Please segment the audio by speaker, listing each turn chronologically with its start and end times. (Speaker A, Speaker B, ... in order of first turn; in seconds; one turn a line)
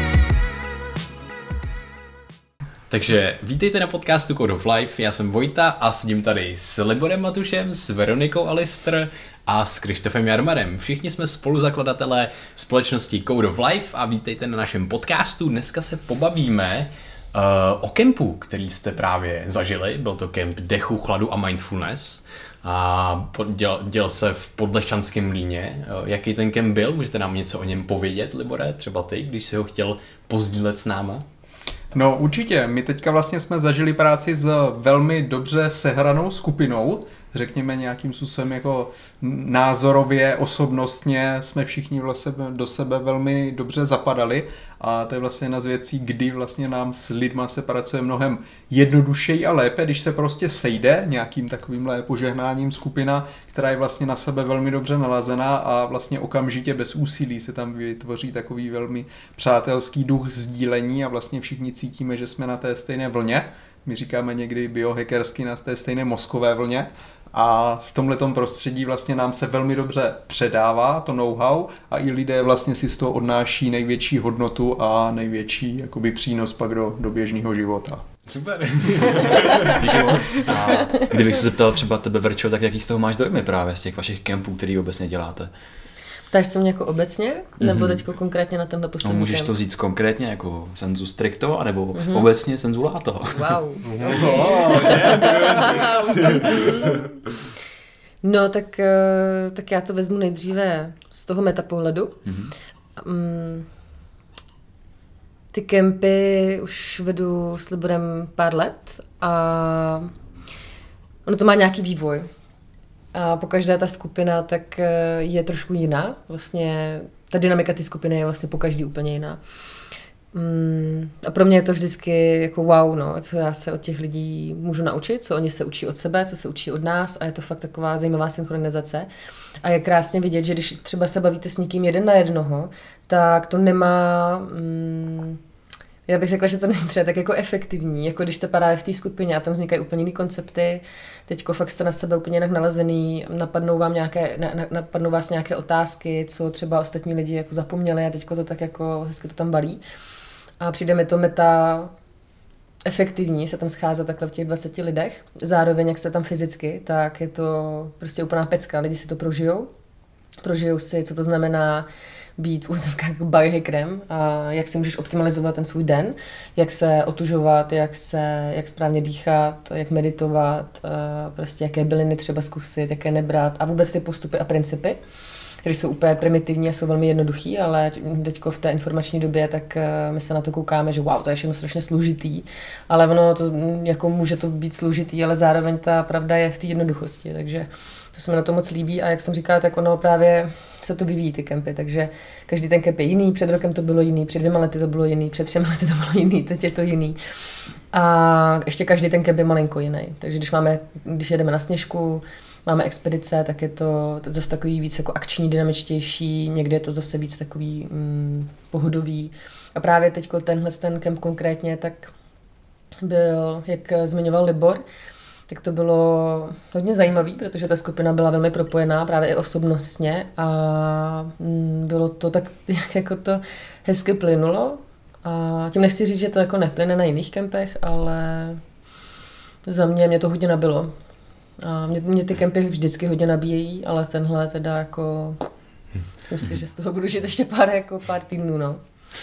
Speaker A: 2.9-31.2
Speaker B: 31.9-78.0
Speaker A: 78.3-79.8
Speaker C: 79.6-85.5
Speaker D: 86.3-89.5
Speaker C: 87.6-88.0
Speaker C: 89.0-93.6
Speaker D: 91.9-92.3
Speaker D: 93.3-97.1
Speaker A: 94.0-96.9
Speaker D: 98.2-102.2
Speaker C: 102.2-102.5
Speaker D: 103.0-103.7
Speaker D: 105.5-110.1
Speaker D: 111.3-112.3
Speaker D: 113.1-119.4
Speaker D: 120.3-129.1
Speaker D: 129.6-135.4
Speaker D: 136.1-149.8
Speaker D: 150.6-151.9
Speaker D: 152.9-159.7
Speaker D: 160.4-161.9
Speaker D: 162.4-175.0
Speaker D: 175.6-197.2
Speaker D: 197.9-212.1
Speaker D: 213.0-214.8
Speaker D: 215.5-228.6
Speaker D: 229.7-230.9
Speaker D: 231.6-235.4
Speaker D: 236.3-238.8